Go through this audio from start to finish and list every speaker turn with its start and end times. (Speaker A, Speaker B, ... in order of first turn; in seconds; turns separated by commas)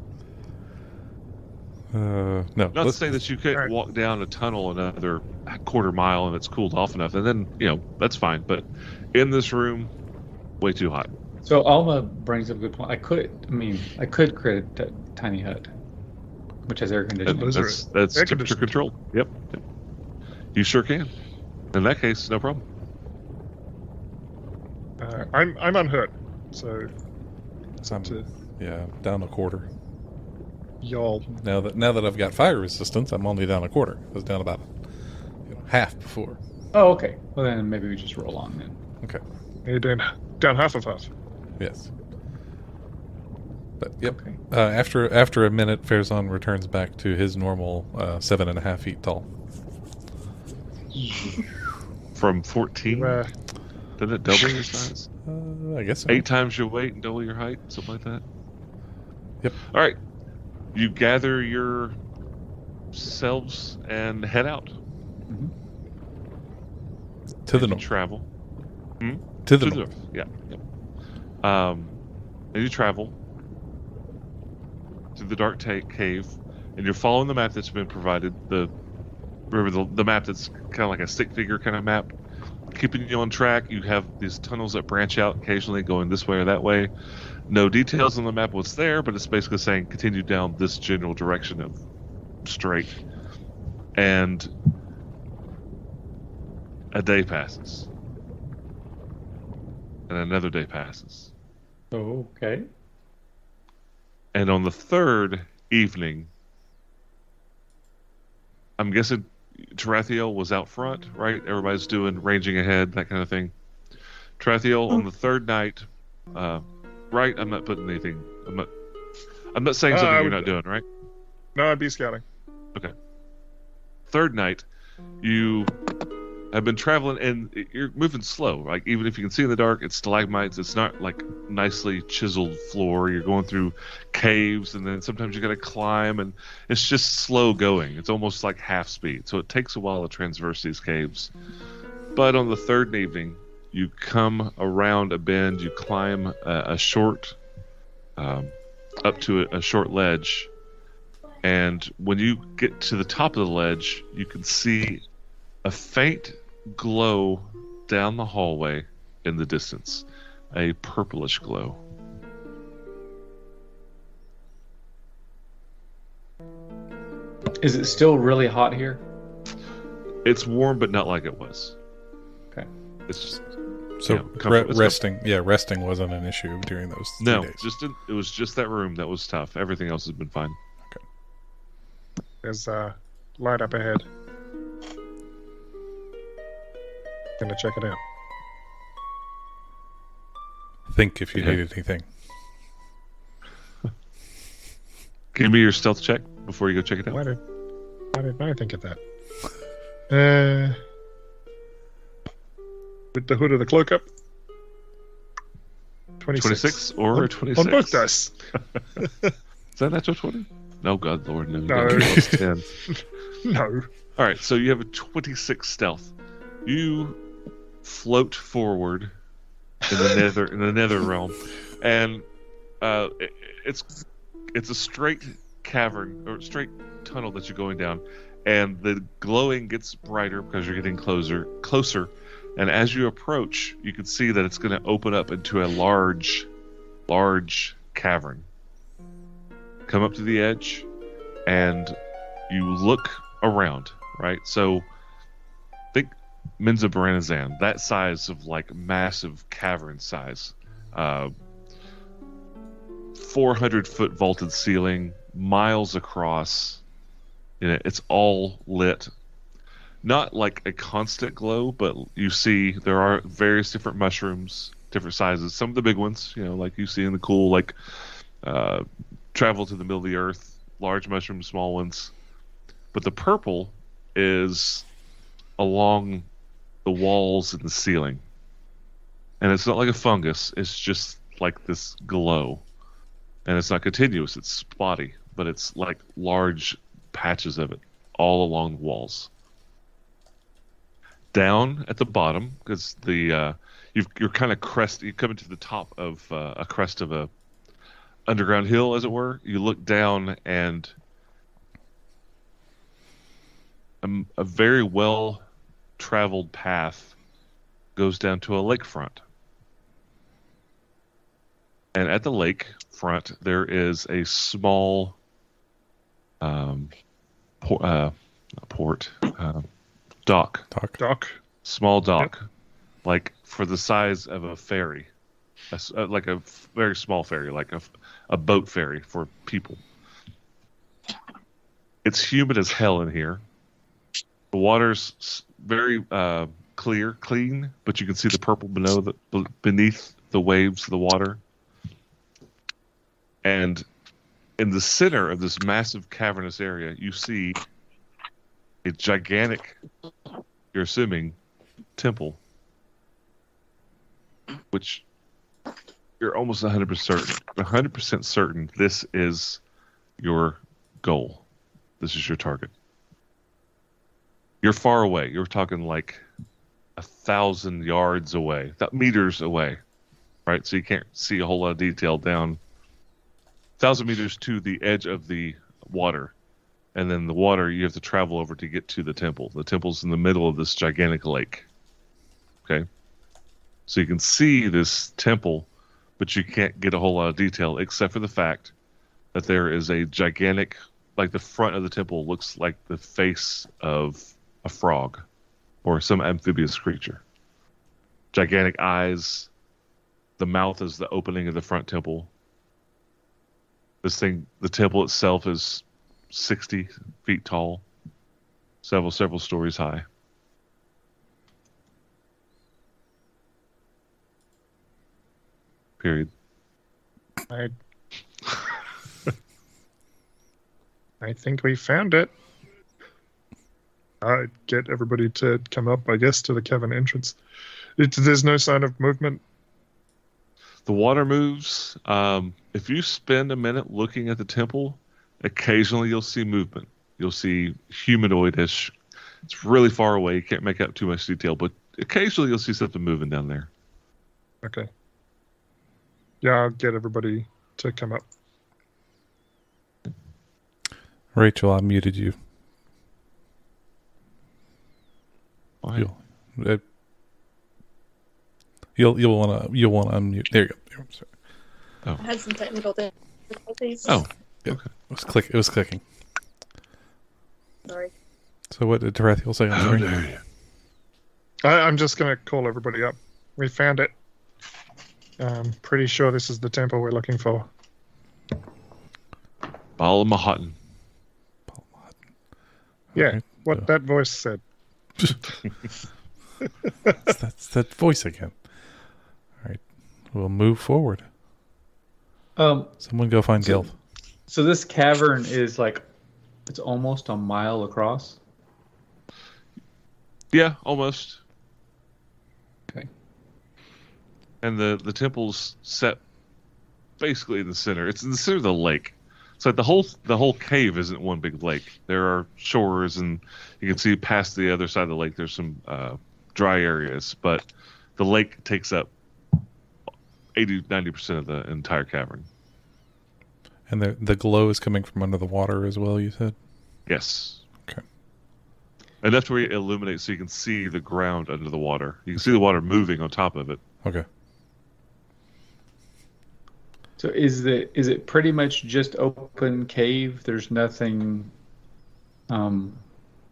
Speaker A: 1.9-3.0, Speaker B: 2.7-9.9, Speaker B: 10.6-11.1, Speaker C: 11.4-15.7, Speaker C: 16.6-17.7, Speaker B: 17.2-19.6, Speaker D: 17.3-18.7, Speaker B: 20.5-21.1, Speaker B: 21.7-22.6, Speaker D: 25.0-26.9, Speaker A: 27.8-29.6, Speaker D: 30.8-31.3, Speaker A: 31.4-34.7, Speaker A: 35.5-36.4, Speaker C: 36.7-38.8, Speaker D: 39.6-41.1, Speaker A: 41.6-41.9, Speaker A: 43.8-49.2, Speaker C: 44.0-44.4, Speaker B: 52.1-53.2, Speaker D: 52.9-53.3, Speaker B: 54.0-55.1, Speaker A: 55.2-56.2, Speaker B: 56.1-58.2, Speaker B: 59.7-60.0, Speaker B: 60.7-62.0, Speaker B: 62.9-64.7, Speaker A: 67.5-67.8, Speaker B: 67.5-68.2, Speaker B: 69.0-70.6, Speaker A: 69.5-69.8, Speaker B: 71.4-71.9, Speaker B: 72.5-73.1, Speaker B: 75.2-78.7, Speaker B: 79.5-82.1, Speaker B: 82.7-86.9, Speaker B: 87.5-91.8, Speaker B: 92.4-93.0, Speaker B: 94.0-94.5, Speaker B: 96.9-97.9, Speaker B: 100.1-101.3, Speaker C: 101.9-102.7, Speaker B: 104.3-106.3, Speaker B: 108.8-113.5, Speaker B: 114.4-118.7, Speaker B: 119.5-120.8, Speaker D: 119.9-120.5, Speaker D: 121.5-122.2, Speaker B: 124.1-124.6, Speaker B: 125.2-125.7, Speaker B: 126.5-141.3, Speaker B: 142.1-147.4, Speaker B: 148.2-150.5, Speaker B: 151.4-155.0, Speaker B: 155.6-161.8, Speaker C: 167.6-169.0, Speaker B: 170.2-171.7, Speaker B: 173.1-173.4, Speaker A: 174.0-177.6, Speaker B: 174.0-175.0, Speaker B: 177.2-180.6, Speaker D: 182.4-184.0, Speaker D: 187.4-188.0, Speaker A: 190.9-192.1, Speaker B: 195.3-197.2, Speaker D: 197.1-197.4, Speaker D: 198.1-199.0, Speaker D: 200.1-200.8, Speaker D: 203.1-204.1, Speaker D: 206.2-208.3, Speaker B: 206.3-208.1, Speaker D: 209.0-209.3, Speaker B: 209.8-212.7, Speaker D: 211.7-213.8, Speaker A: 212.0-212.4, Speaker B: 214.2-216.1, Speaker B: 216.6-217.2, Speaker B: 217.8-219.1, Speaker B: 219.9-222.2, Speaker B: 222.8-223.9, Speaker B: 224.5-236.5, Speaker B: 237.1-238.4, Speaker B: 239.9-240.9, Speaker B: 241.4-241.9, Speaker B: 242.5-244.9, Speaker B: 245.9-251.3, Speaker B: 253.1-256.8, Speaker B: 257.6-259.1, Speaker B: 260.0-267.7, Speaker B: 268.4-272.1, Speaker B: 272.9-274.8, Speaker B: 275.6-276.3, Speaker B: 276.8-278.2, Speaker B: 279.4-282.6, Speaker B: 283.4-289.3, Speaker B: 291.3-297.3, Speaker B: 298.3-300.9, Speaker B: 304.0-305.4, Speaker B: 306.0-307.1, Speaker B: 307.9-309.2, Speaker B: 311.9-315.1, Speaker B: 316.4-316.9, Speaker B: 317.6-319.7, Speaker B: 320.2-320.6, Speaker A: 320.7-321.0, Speaker D: 321.0-321.4, Speaker B: 321.6-322.5, Speaker B: 323.0-325.1, Speaker B: 325.7-329.8, Speaker B: 332.0-333.4, Speaker B: 334.5-341.4, Speaker B: 343.4-343.8, Speaker B: 344.6-347.6, Speaker B: 348.8-349.8, Speaker B: 350.7-351.4, Speaker B: 352.0-352.4, Speaker B: 354.7-355.0, Speaker B: 356.2-359.6, Speaker B: 360.2-361.4, Speaker B: 362.0-362.7, Speaker B: 364.6-366.2, Speaker B: 367.0-369.8, Speaker B: 370.4-372.6, Speaker B: 373.8-376.3, Speaker B: 376.9-381.7, Speaker B: 383.9-385.7, Speaker B: 386.2-388.7, Speaker B: 389.3-395.2, Speaker B: 395.8-397.2, Speaker B: 398.3-399.5, Speaker B: 400.4-402.3, Speaker B: 404.0-407.8, Speaker B: 408.8-410.0, Speaker B: 416.0-416.3, Speaker D: 421.2-422.3, Speaker D: 424.2-427.4, Speaker D: 428.0-429.4, Speaker B: 430.9-438.9, Speaker B: 439.4-443.7, Speaker D: 444.6-444.9, Speaker D: 446.4-448.2, Speaker A: 451.3-452.3, Speaker A: 456.0-456.8, Speaker A: 458.9-461.3, Speaker E: 462.2-464.1, Speaker B: 464.0-464.9, Speaker A: 464.6-466.0, Speaker A: 468.7-470.2, Speaker B: 469.7-470.4, Speaker D: 471.6-474.1, Speaker D: 475.4-477.7, Speaker B: 480.0-480.8, Speaker A: 481.7-482.1, Speaker A: 483.1-483.8, Speaker D: 483.1-484.6, Speaker A: 487.2-488.5, Speaker A: 490.3-491.2, Speaker C: 492.6-493.0, Speaker A: 493.0-493.9, Speaker C: 493.6-493.9, Speaker C: 494.5-496.0, Speaker C: 496.7-498.4, Speaker B: 500.5-501.4, Speaker B: 504.6-506.2, Speaker B: 507.2-517.6, Speaker B: 518.2-519.1, Speaker B: 520.5-522.5, Speaker A: 523.9-526.5, Speaker B: 527.1-527.6, Speaker B: 529.2-533.8, Speaker C: 537.2-541.5, Speaker C: 542.5-543.0